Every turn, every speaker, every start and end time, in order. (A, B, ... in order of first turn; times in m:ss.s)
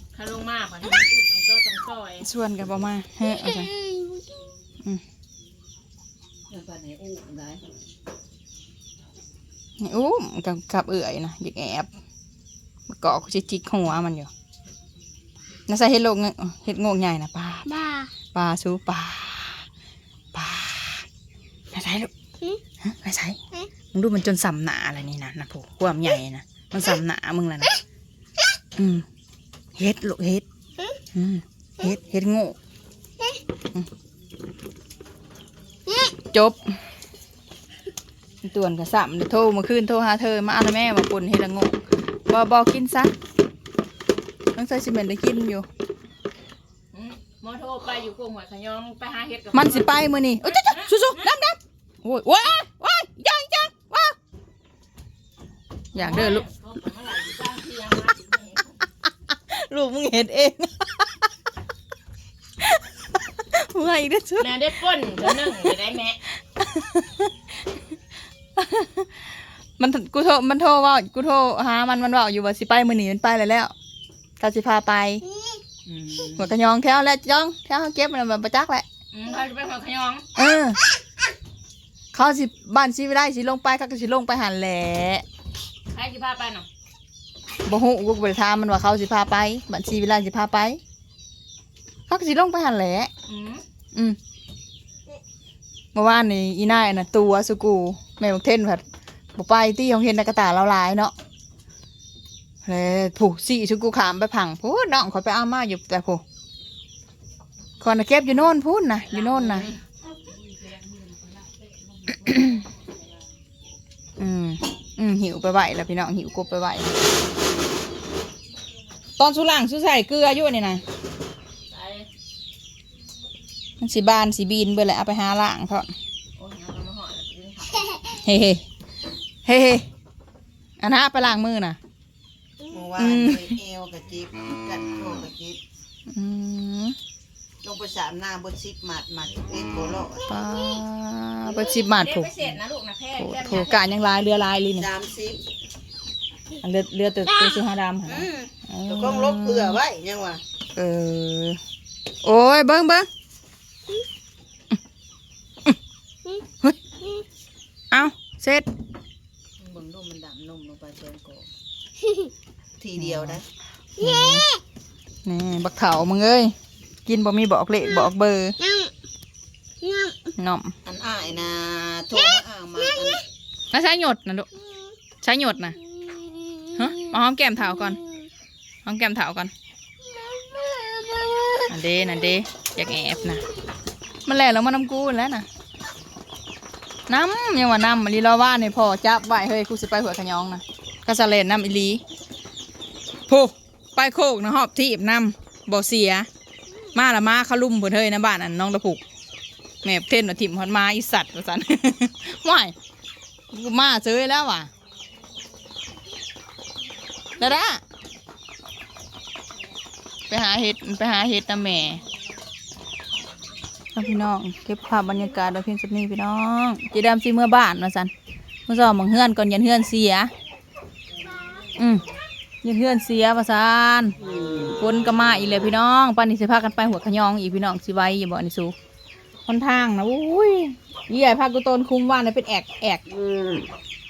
0:00.1-0:02.3 A
0:02.2-0:03.8 B
0:06.5-0:07.7 C
0:09.8-0:11.9 B
0:12.9-0:14.3 B
0:15.7-0:19.6 B
0:20.3-0:21.1 B
0:21.7-0:22.1 B
0:22.8-0:23.4 B
0:23.9-0:27.8 B
0:28.8-0:29.0 B
0:29.8-0:30.4 B
0:31.1-0:32.6 B
0:36.3-0:36.8 B
0:38.4-0:43.1 B
0:44.6-0:45.7 B
0:46.9-0:51.3 A
0:49.5-0:54.2 B
0:55.9-0:58.8 A
0:56.0-0:56.5 B
0:59.3-1:01.1 B
1:03.5-1:04.6 B
1:04.4-1:06.2 A
1:05.2-1:05.7 B
1:06.6-1:07.3 B
1:08.6-1:13.7 B
1:14.4-1:15.2 B
1:15.9-1:16.5 C
1:16.4-1:18.8 B
1:19.1-1:20.3 A
1:20.4-1:20.8 B
1:22.1-1:25.2 B
1:25.9-1:26.7 A
1:27.6-1:30.8 B
1:32.1-1:33.1 B
1:33.3-1:33.6 A
1:36.0-1:38.8 B
1:39.4-1:41.1 B
1:42.6-1:46.2 B
1:47.8-1:49.7 B
1:49.1-1:49.8 A
1:52.3-1:52.6 B
1:54.2-1:57.0 B
1:59.2-2:00.8 B
2:01.7-2:02.1 A
2:03.8-2:05.9 B
2:06.4-2:08.0 A
2:08.1-2:08.6 B
2:09.4-2:09.9 B
2:10.8-2:11.8 B
2:12.7-2:15.6 C
2:13.0-2:13.6 B
2:16.1-2:17.0 B
2:17.6-2:20.2 C
2:20.2-2:22.6 B
2:21.8-2:23.8 A
2:23.2-2:24.9 B
2:24.8-2:25.4 C
2:26.6-2:29.8 B
2:28.1-2:30.4 C
2:30.8-2:31.6 B
2:32.2-2:33.1 B
2:37.9-2:38.7 B
2:39.6-2:41.5 C
2:42.8-2:43.4 C
2:43.0-2:43.4 B
2:44.0-2:44.5 B
2:45.3-2:46.5 B
2:47.1-2:48.6 B
2:50.4-2:50.8 B
2:50.8-2:53.2 C
2:53.7-2:54.5 B
2:55.2-2:55.8 B
2:56.8-2:58.0 B
2:58.8-2:59.5 B
3:01.6-3:03.4 B
3:04.3-3:05.5 B
3:07.1-3:12.0 B
3:13.3-3:16.3 B
3:16.9-3:19.0 B
3:19.8-3:22.7 B
3:23.5-3:24.7 B
3:27.4-3:27.8 B
3:30.3-3:32.0 B
3:34.0-3:38.1 B
3:38.7-3:40.3 B
3:41.3-3:41.7 C
3:41.8-3:42.1 B
3:42.6-3:44.2 B
3:44.2-3:44.8 C
3:44.7-3:48.8 B
3:49.5-3:53.0 B
3:53.2-3:53.6 C